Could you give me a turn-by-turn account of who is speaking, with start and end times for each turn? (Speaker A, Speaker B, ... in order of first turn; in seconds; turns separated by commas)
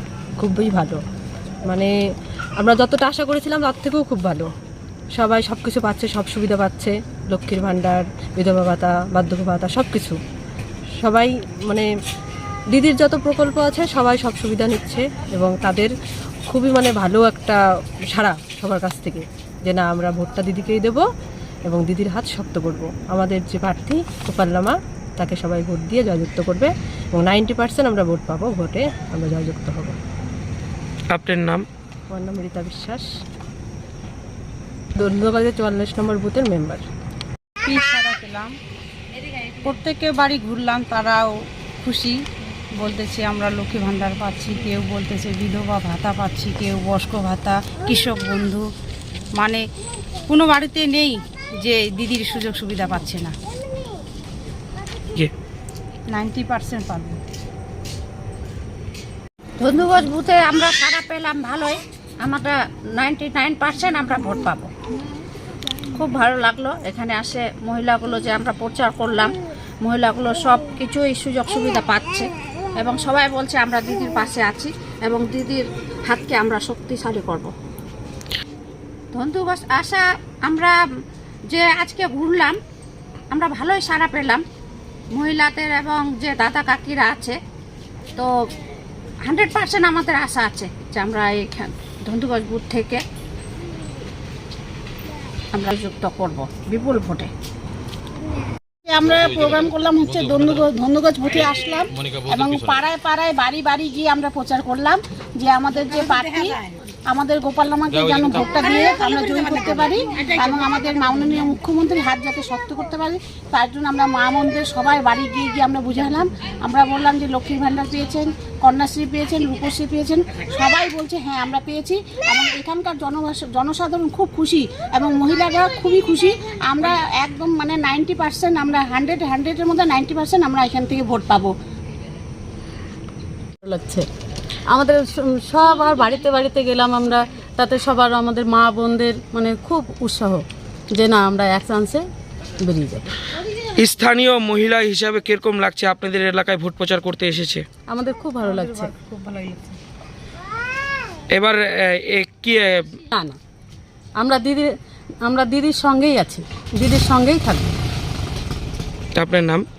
Speaker A: 0.4-1.0, Speaker A: 1.7-1.9, Speaker A: 2.6-4.5, Speaker A: 5.1-10.2, Speaker A: 11.0-11.9, Speaker A: 12.7-15.9, Speaker A: 16.5-21.1, Speaker A: 21.7-30.0, Speaker B: 31.2-31.6, Speaker A: 32.1-33.1, Speaker A: 35.0-36.8, Speaker C: 37.6-38.5, Speaker C: 39.6-42.2, Speaker C: 42.8-48.7, Speaker C: 49.4-49.6, Speaker C: 50.3-53.3, Speaker C: 56.1-57.2, Speaker D: 59.6-64.7, Speaker D: 65.9-77.5, Speaker D: 79.1-80.8, Speaker D: 81.5-82.6, Speaker D: 83.3-84.4, Speaker D: 85.1-87.4, Speaker D: 89.2-93.0, Speaker D: 95.5-97.3, Speaker E: 98.8-131.5, Speaker F: 133.6-134.1, Speaker F: 134.7-142.0, Speaker F: 142.6-143.1, Speaker B: 144.0-147.6, Speaker F: 147.9-148.9, Speaker C: 148.4-149.8, Speaker B: 151.3-152.8, Speaker F: 153.1-153.4, Speaker F: 154.2-154.7, Speaker F: 155.2-157.7, Speaker B: 159.2-159.6